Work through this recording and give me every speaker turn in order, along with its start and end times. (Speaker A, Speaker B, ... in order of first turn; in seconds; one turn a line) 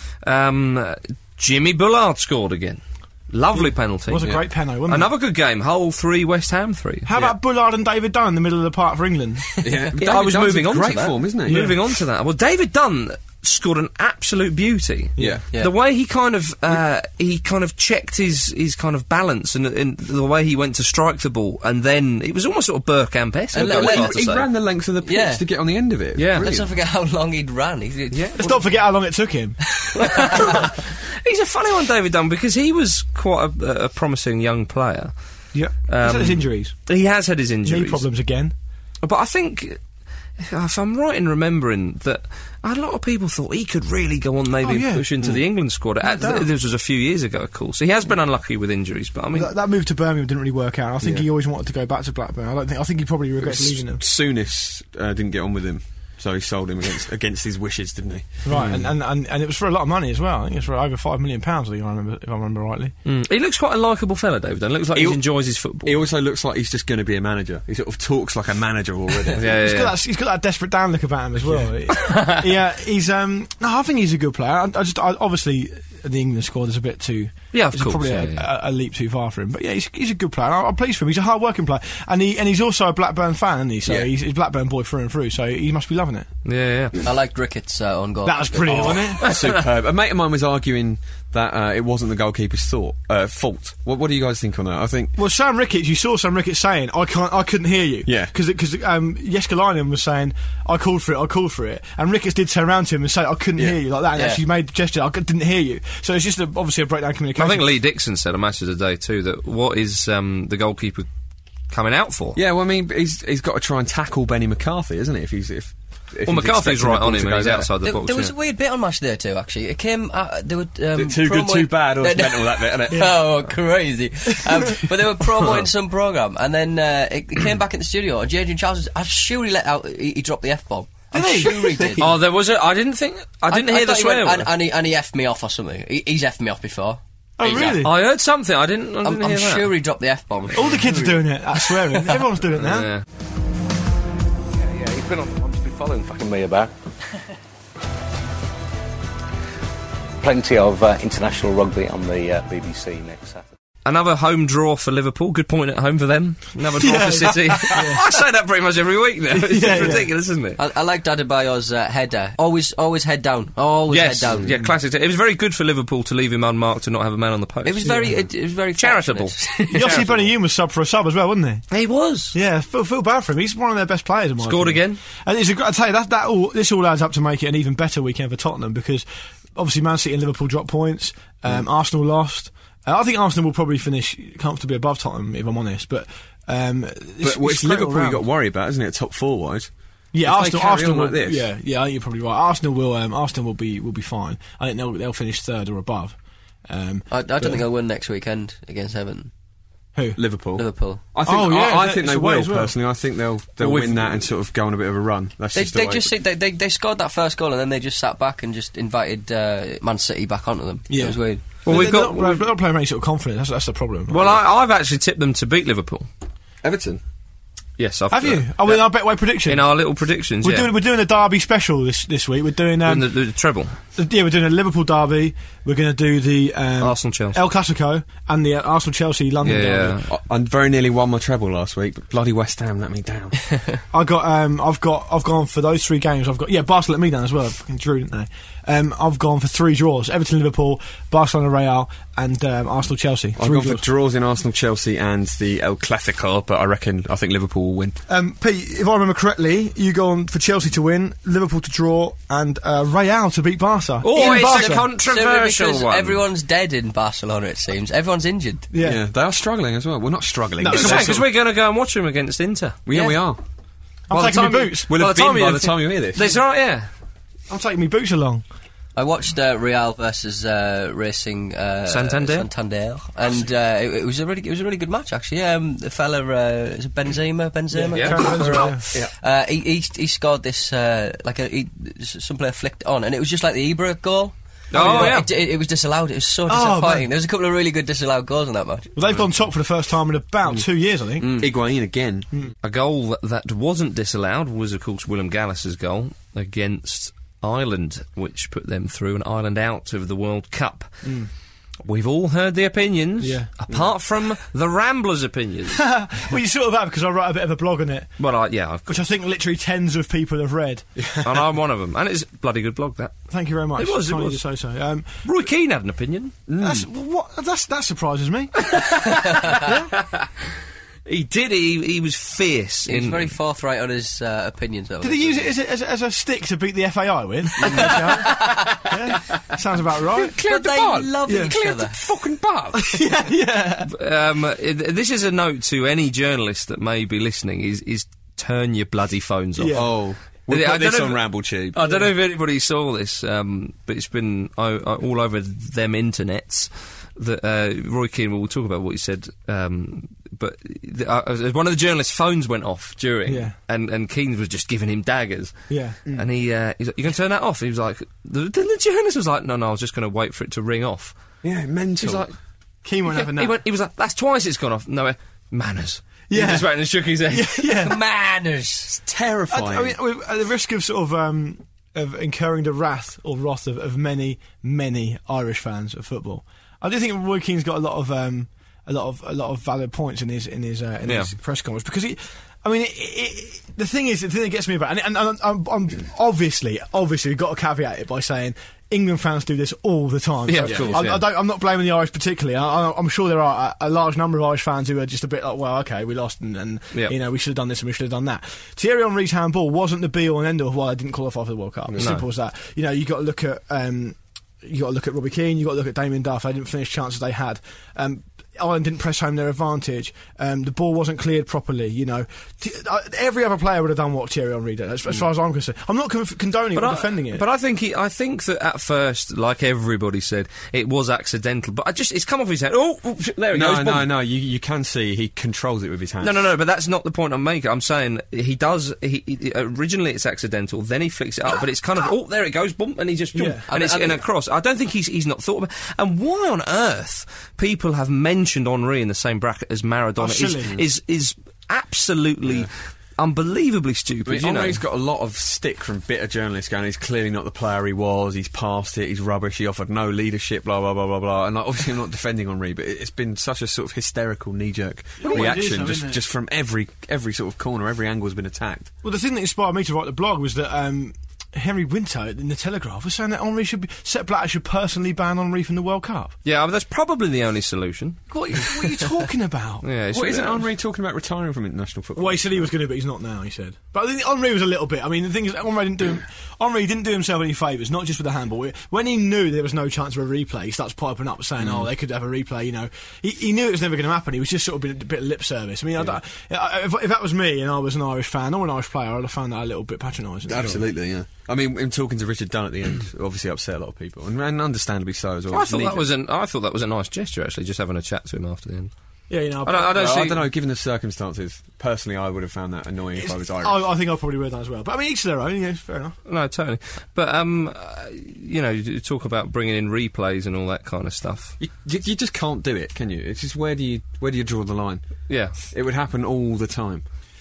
Speaker A: 0.2-7.2
Speaker B: 3.5-5.1
Speaker B: 7.0-9.4
Speaker C: 9.6-11.6
Speaker A: 10.0-24.5
Speaker B: 11.5-11.8
Speaker C: 15.2-15.4
Speaker D: 23.5-24.4
Speaker C: 23.5-26.7
Speaker D: 25.0-25.4
Speaker A: 26.1-26.5
Speaker D: 26.4-28.5
Speaker A: 28.1-28.6
Speaker B: 28.4-29.6
Speaker A: 30.0-35.1
Speaker B: 35.5-36.7
Speaker A: 35.9-38.0
Speaker B: 37.6-38.5
Speaker A: 39.0-39.8
Speaker A: 40.4-49.5
Speaker B: 44.6-45.1
Speaker B: 46.0-46.5
Speaker B: 49.3-54.0
Speaker C: 53.4-58.9
Speaker B: 58.4-62.9
Speaker A: 63.0-66.0
Speaker C: 64.9-69.4
Speaker A: 69.3-69.9
Speaker B: 69.4-86.3
Speaker A: 71.9-72.5
Speaker A: 77.5-78.4
Speaker A: 86.4-87.0
Speaker D: 87.0-89.0
Speaker B: 88.2-89.2
Speaker C: 88.7-95.1
Speaker A: 89.3-89.5
Speaker B: 95.2-107.7
Speaker C: 98.0-98.3
Speaker D: 104.1-104.4
Speaker A: 107.4-111.1
Speaker A: 111.7-112.4
Speaker C: 112.3-117.7
Speaker A: 116.2-118.3
Speaker D: 117.8-132.2
Speaker C: 120.9-123.2
Speaker B: 131.1-132.0
Speaker A: 132.0-134.5
Speaker D: 133.5-137.9
Speaker B: 137.4-137.9
Speaker A: 137.5-139.7
Speaker D: 139.0-141.3
Speaker B: 140.6-142.9
Speaker A: 142.6-143.0
Speaker E: 144.6-146.7
Speaker E: 150.2-153.5
Speaker A: 153.8-160.6
Speaker B: 156.8-158.1
Speaker B: 159.3-160.1
Speaker D: 160.6-164.5
Speaker A: 163.9-167.9
Speaker D: 167.6-170.1
Speaker B: 167.8-168.2
Speaker A: 168.8-170.3
Speaker B: 169.7-171.6
Speaker A: 171.7-172.3
Speaker B: 172.3-179.0
Speaker A: 174.4-175.0
Speaker B: 179.6-188.2
Speaker C: 187.2-189.7
Speaker B: 190.1-196.2
Speaker C: 190.2-191.4
Speaker B: 196.7-197.6
Speaker D: 197.1-199.3
Speaker C: 200.2-206.1
Speaker D: 200.6-201.1
Speaker B: 201.2-202.8
Speaker A: 203.6-204.3
Speaker D: 205.5-211.6
Speaker B: 210.9-214.2
Speaker A: 211.6-212.5
Speaker A: 214.1-216.1
Speaker C: 216.6-217.0
Speaker A: 217.8-220.7
Speaker B: 218.1-219.7
Speaker B: 220.4-223.1
Speaker A: 222.8-223.8
Speaker B: 223.9-230.0
Speaker A: 226.8-227.4
Speaker A: 229.4-230.1
Speaker C: 230.1-233.5
Speaker B: 233.9-243.8
Speaker C: 243.4-248.0
Speaker B: 248.1-254.9
Speaker A: 254.0-256.2
Speaker D: 254.1-258.7
Speaker B: 258.7-259.0
Speaker C: 258.8-261.3
Speaker B: 260.6-261.2
Speaker A: 260.7-262.8
Speaker C: 262.9-263.4
Speaker D: 262.9-263.2
Speaker B: 264.1-264.9
Speaker A: 264.1-266.9
Speaker C: 264.9-266.3
Speaker B: 267.5-268.4
Speaker D: 268.9-288.9
Speaker A: 271.9-272.5
Speaker B: 277.7-278.8
Speaker A: 277.9-278.7
Speaker A: 284.7-285.3
Speaker C: 284.7-285.1
Speaker B: 286.5-287.1
Speaker B: 288.9-291.4
Speaker A: 289.0-289.3
Speaker C: 291.2-292.3
Speaker A: 292.6-301.1
Speaker B: 301.0-301.3
Speaker A: 301.8-305.8
Speaker B: 303.2-303.5
Speaker B: 305.7-308.2
Speaker A: 308.2-309.0
Speaker B: 308.9-311.1
Speaker C: 311.0-311.3
Speaker A: 311.2-313.1
Speaker B: 313.3-315.1
Speaker A: 313.8-314.4
Speaker A: 315.2-316.3
Speaker C: 316.5-316.9
Speaker B: 316.6-318.7
Speaker A: 318.6-320.3
Speaker B: 319.6-319.9
Speaker A: 321.1-323.4
Speaker D: 322.9-325.5
Speaker B: 325.0-330.3
Speaker C: 327.6-327.9
Speaker D: 327.6-329.0
Speaker C: 330.1-333.0
Speaker D: 330.4-332.0
Speaker B: 331.3-331.6
Speaker B: 332.7-333.9
Speaker A: 333.9-339.9
Speaker B: 339.6-339.9
Speaker C: 339.7-341.8
Speaker A: 340.5-355.5
Speaker B: 353.3-353.5
Speaker B: 355.7-356.2
Speaker A: 356.1-361.1
Speaker C: 361.4-362.2
Speaker A: 362.0-362.3
Speaker B: 362.8-363.6
Speaker A: 363.1-368.0
Speaker B: 366.3-368.0
Speaker D: 368.0-369.0
Speaker C: 369.0-369.9
Speaker B: 369.5-417.4
Speaker A: 381.1-381.3
Speaker A: 390.5-391.2
Speaker C: 390.6-391.0
Speaker C: 401.9-402.1
Speaker A: 402.0-402.2
Speaker A: 416.7-424.1
Speaker C: 423.5-426.3
Speaker A: 426.2-444.8
Speaker B: 433.3-433.6
Speaker D: 433.7-434.2
Speaker B: 440.2-440.8
Speaker C: 442.4-442.7
Speaker C: 444.2-458.9
Speaker B: 455.2-456.2
Speaker B: 459.0-466.3
Speaker A: 466.4-468.2
Speaker B: 468.3-469.8
Speaker A: 469.8-470.7
Speaker C: 470.1-472.7
Speaker B: 472.1-490.9
Speaker C: 481.6-481.9
Speaker C: 490.5-496.1
Speaker A: 495.5-498.9
Speaker B: 499.3-500.1
Speaker A: 499.6-500.5
Speaker C: 499.9-503.8
Speaker B: 503.2-506.2
Speaker A: 506.3-511.6
Speaker C: 511.6-515.0
Speaker A: 515.3-515.5
Speaker C: 515.7-517.0